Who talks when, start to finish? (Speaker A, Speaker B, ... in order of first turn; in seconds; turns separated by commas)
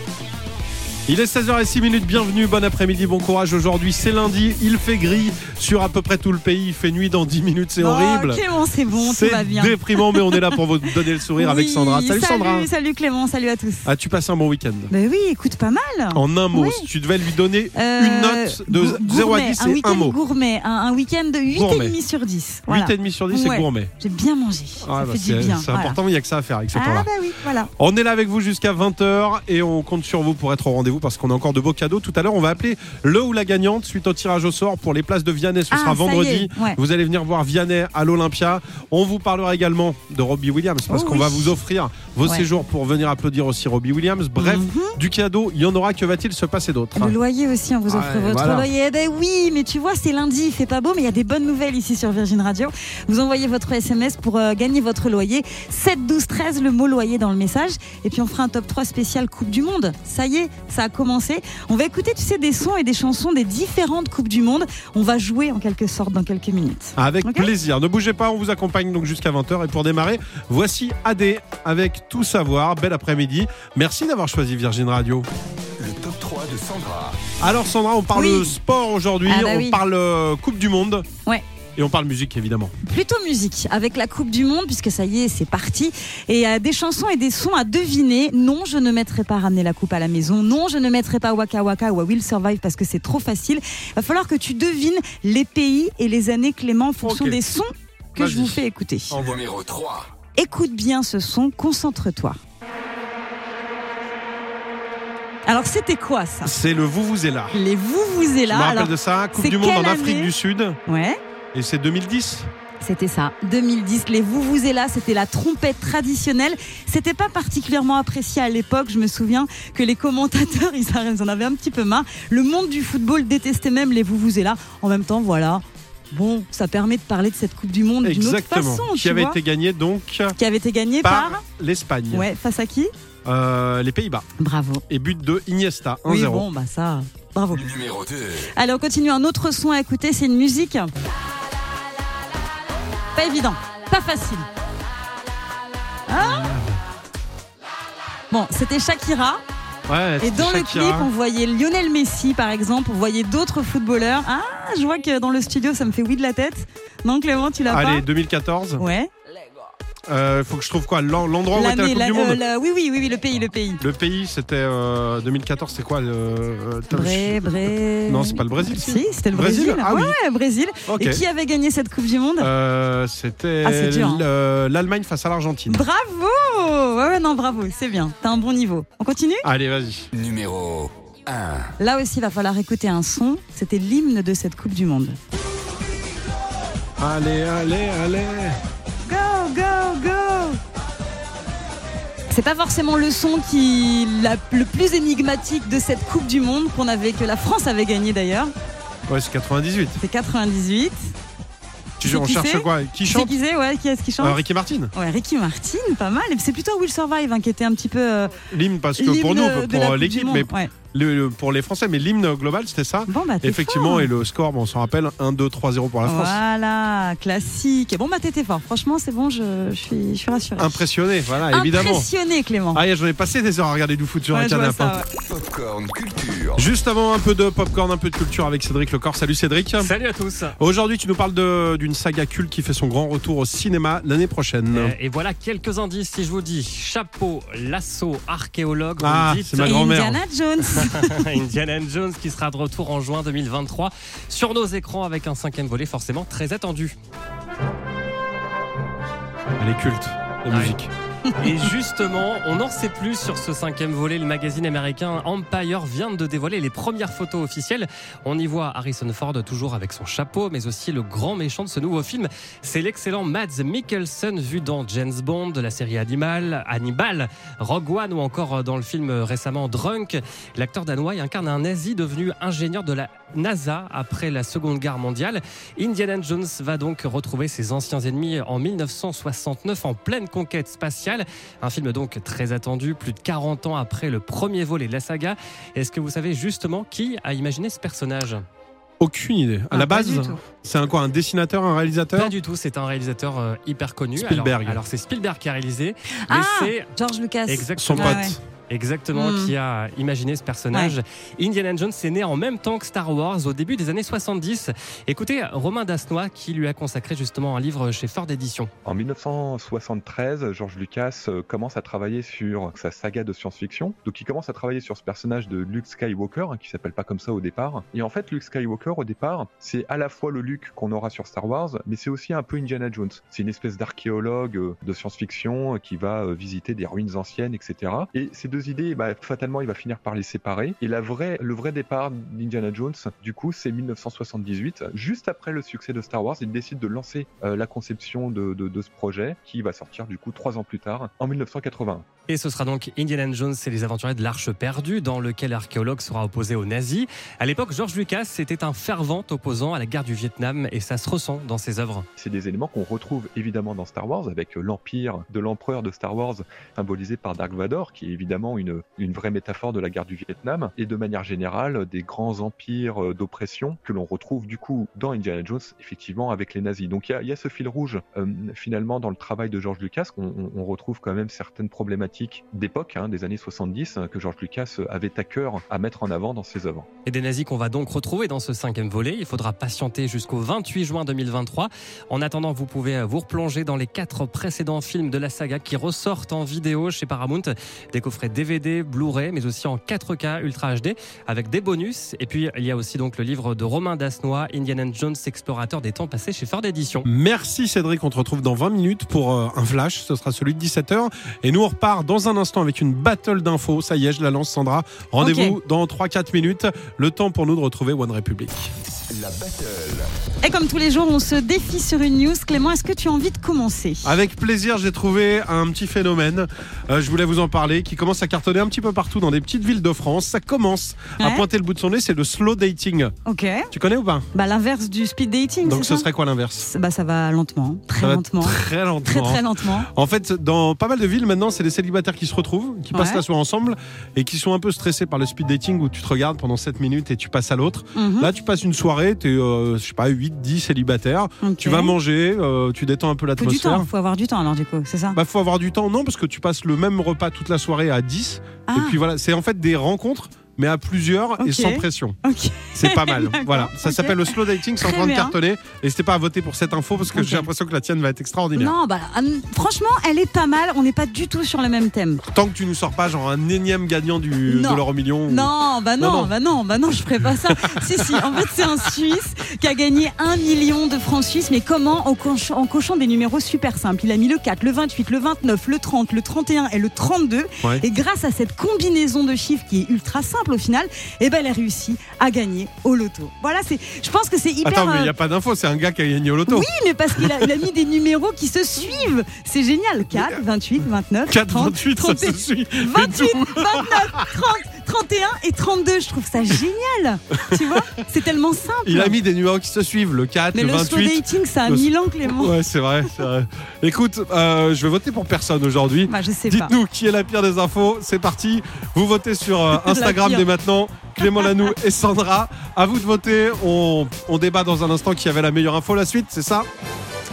Speaker A: 1.1-8.4, Speaker B: 7.8-10.6, Speaker A: 8.9-12.7, Speaker B: 11.3-13.9, Speaker A: 13.8-14.9, Speaker B: 14.9-16.8, Speaker A: 16.1-20.2, Speaker B: 17.7-26.0, Speaker A: 21.5-21.9, Speaker A: 22.7-23.9, Speaker A: 24.8-27.1, Speaker B: 26.7-27.7, Speaker A: 27.8-47.2, Speaker B: 35.7-36.8, Speaker B: 40.9-41.5, Speaker B: 44.4-45.0, Speaker B: 47.0-67.5, Speaker A: 47.9-48.7, Speaker A: 67.0-75.3, Speaker C: 75.8-77.2, Speaker A: 77.4-81.1, Speaker B: 78.1-78.5, Speaker B: 79.3-79.8, Speaker A: 81.8-82.7, Speaker B: 82.8-99.1, Speaker A: 97.0-97.4, Speaker A: 98.2-99.4, Speaker C: 99.1-100.1, Speaker B: 100.3-102.4, Speaker B: 105.5-106.5, Speaker A: 106.4-107.6, Speaker B: 107.5-110.3, Speaker A: 108.5-110.8, Speaker B: 110.9-111.2, Speaker A: 111.5-112.5, Speaker B: 112.8-129.4, Speaker A: 128.0-130.4, Speaker B: 130.3-131.4, Speaker A: 131.0-132.3, Speaker B: 132.1-132.9, Speaker A: 133.2-134.2, Speaker B: 134.4-134.8, Speaker A: 134.9-136.4, Speaker B: 136.1-137.6, Speaker C: 137.5-138.5, Speaker B: 138.5-140.9, Speaker B: 143.1-144.5, Speaker B: 146.1-146.5, Speaker A: 146.2-146.8, Speaker B: 148.3-149.4, Speaker A: 149.9-151.1, Speaker B: 150.2-158.0, Speaker A: 157.7-158.8, Speaker B: 158.8-159.1, Speaker A: 160.1-162.4, Speaker B: 161.5-163.8, Speaker A: 163.8-170.2, Speaker B: 166.9-172.5, Speaker A: 170.9-171.2, Speaker A: 172.4-175.8, Speaker B: 173.6-174.2, Speaker B: 175.7-179.4, Speaker A: 179.4-180.1, Speaker C: 180.1-181.7, Speaker B: 181.8-185.2, Speaker A: 187.0-188.6, Speaker B: 189.0-190.6, Speaker B: 192.3-198.5, Speaker A: 199.1-200.0, Speaker B: 200.0-201.1, Speaker A: 202.0-203.3, Speaker B: 202.0-204.4, Speaker A: 204.2-204.9, Speaker B: 204.9-208.4, Speaker A: 208.5-216.4, Speaker B: 209.0-210.7, Speaker B: 213.1-214.1, Speaker B: 216.0-220.8, Speaker A: 220.6-222.1, Speaker B: 221.5-222.8, Speaker A: 222.7-225.0, Speaker B: 224.3-225.1, Speaker C: 225.3-226.7, Speaker A: 226.6-229.9, Speaker D: 229.8-230.5, Speaker A: 230.6-234.9, Speaker D: 234.7-239.8, Speaker A: 239.0-240.2, Speaker B: 239.6-241.2, Speaker D: 240.7-246.9, Speaker A: 249.6-250.9, Speaker D: 251.4-288.4, Speaker A: 289.0-292.3, Speaker B: 289.7-290.4, Speaker D: 292.1-296.9, Speaker A: 294.1-294.8, Speaker B: 296.2-298.4, Speaker D: 297.5-308.7, Speaker A: 297.8-298.4, Speaker B: 299.1-299.5, Speaker E: 308.9-342.1, Speaker D: 342.3-352.1, Speaker E: 352.2-376.9, Speaker D: 377.1-397.1, Speaker A: 397.1-408.7, Speaker B: 405.2-405.6, Speaker C: 409.1-410.1, Speaker B: 410.4-414.1, Speaker A: 414.0-423.1, Speaker B: 421.2-421.4, Speaker B: 423.2-423.7, Speaker A: 423.7-424.2, Speaker B: 424.3-426.0, Speaker A: 425.6-426.7, Speaker B: 426.6-429.9, Speaker A: 428.0-443.9, Speaker B: 432.9-433.2, Speaker B: 437.9-438.3, Speaker B: 441.4-441.9, Speaker B: 443.4-445.2, Speaker A: 445.1-452.2, Speaker B: 448.7-449.0, Speaker B: 451.4-455.3, Speaker A: 452.7-458.7, Speaker B: 457.1-457.4, Speaker B: 458.6-462.2, Speaker A: 462.3-466.3, Speaker B: 464.5-485.1, Speaker A: 467.5-468.6, Speaker A: 484.6-487.5, Speaker B: 486.5-499.1, Speaker A: 491.3-494.2, Speaker A: 498.8-516.7, Speaker B: 500.5-502.6, Speaker B: 506.1-506.7, Speaker B: 509.7-510.4